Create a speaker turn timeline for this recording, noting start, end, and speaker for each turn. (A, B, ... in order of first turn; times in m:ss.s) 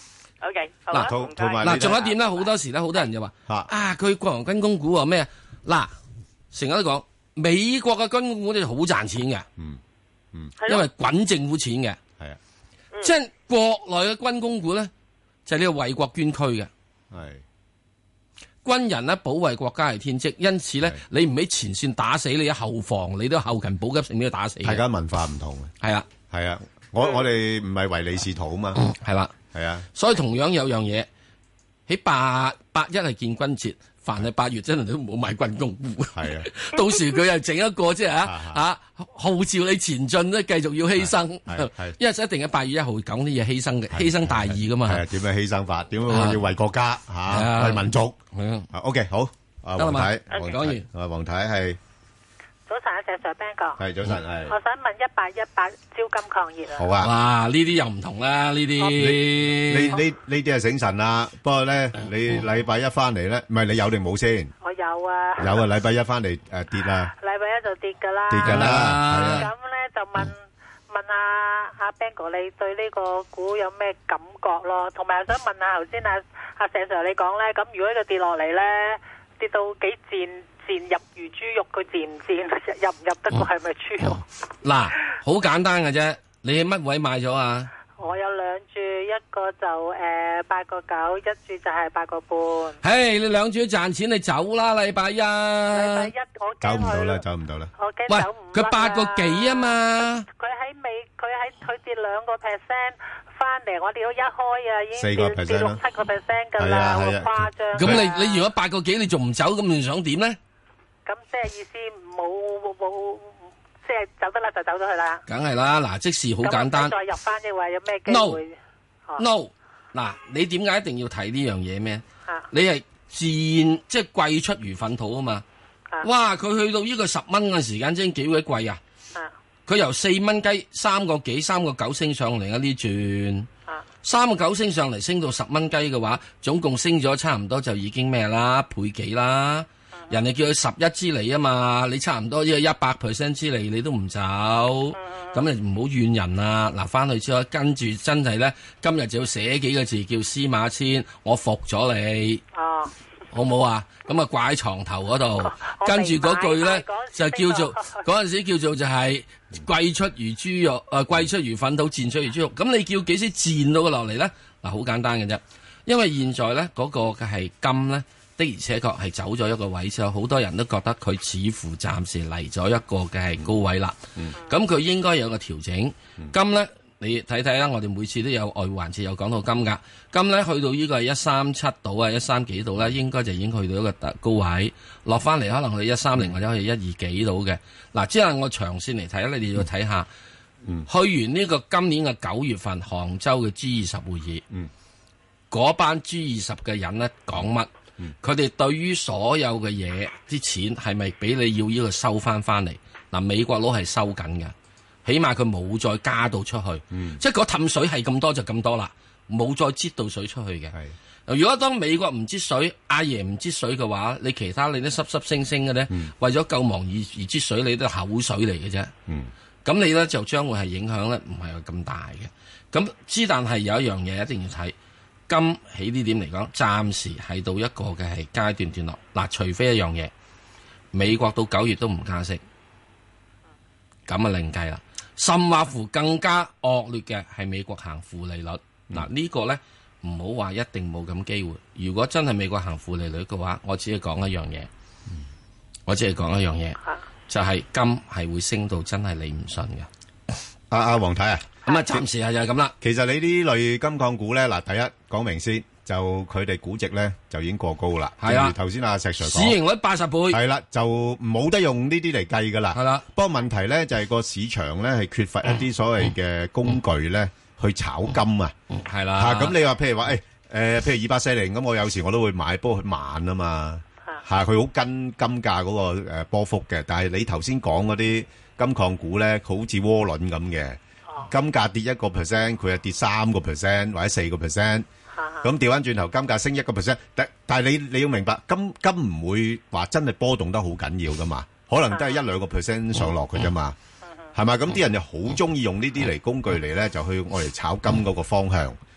0:00.4-0:03.0 A
0:00.9-0:02.0 B
0:01.6-0:05.9 C
0:06.5-0:09.5 C
0:10.6-0:10.9 A
0:10.7-0:12.0 C
0:13.0-0:14.9 C
0:15.4-0:16.7 C
0:17.1-0:17.4 B
0:18.6-0:24.8 C
0:24.6-0:25.7 B
0:25.8-0:26.1 C
0:26.3-0:28.8 B
0:28.8-0:29.3 C
0:29.5-0:29.9 B
0:29.9-0:31.1 C
0:31.9-0:45.0 C
0:36.1-0:36.5 B
0:38.2-0:38.6 B
0:41.0-0:42.0 B
0:43.9-0:48.2 B
0:46.1-0:46.4 C
0:47.3-0:48.7 C
0:48.7-0:51.8 B
0:49.8-0:50.8 C
0:52.7-0:53.8 D
0:53.8-0:54.6 B
0:54.5-0:56.9 D
0:56.8-0:57.1 B
0:57.0-1:00.0 C
0:59.0-1:04.5 B
1:04.6-1:05.6 D
1:05.4-1:07.1 B
1:07.1-1:24.2 D
1:08.3-1:09.5 B
1:08.4-1:09.4 C
1:24.6-1:27.7 C
1:28.0-1:32.8 D
1:32.8-1:36.1 C
1:35.7-1:37.2 D
1:36.6-1:37.7 B
1:37.8-1:48.4 D
1:38.1-1:40.3 C
1:45.0-1:45.8 B
1:46.6-1:48.0 B
1:47.8-1:50.4 C
1:51.0-1:55.2 D
1:55.3-1:56.9 C
1:56.4-1:58.6 D
1:58.1-1:58.4 C
1:59.2-2:05.4 C
2:06.0-2:08.8 C
2:09.7-2:13.5 C
2:14.0-2:32.4 C
2:25.1-2:25.4 D
2:32.5-2:32.9 D
2:33.3-3:10.1 C
2:35.4-2:38.0 D
3:10.8-3:14.4 C
3:15.5-3:17.7 C
3:18.2-3:24.5 C
3:25.0-3:30.7 C
3:26.9-3:27.2 B
3:31.3-3:38.9 C
3:39.6-3:44.7 C
3:45.3-3:50.1 C
3:50.9-3:52.4 C
3:54.1-4:04.7 C
4:05.9-4:09.9 C
4:10.7-4:11.6 B
4:11.6-4:12.7 C
4:12.8-4:19.6 B
4:18.2-4:18.5 C
4:19.2-4:20.4 C
4:20.3-4:28.5 B
4:22.7-4:23.0 C
4:28.7-4:29.6 C
4:29.2-4:44.8 B
4:45.1-4:45.5 D
4:45.4-4:53.8 B
4:51.9-4:52.2 D
4:54.3-4:58.8 B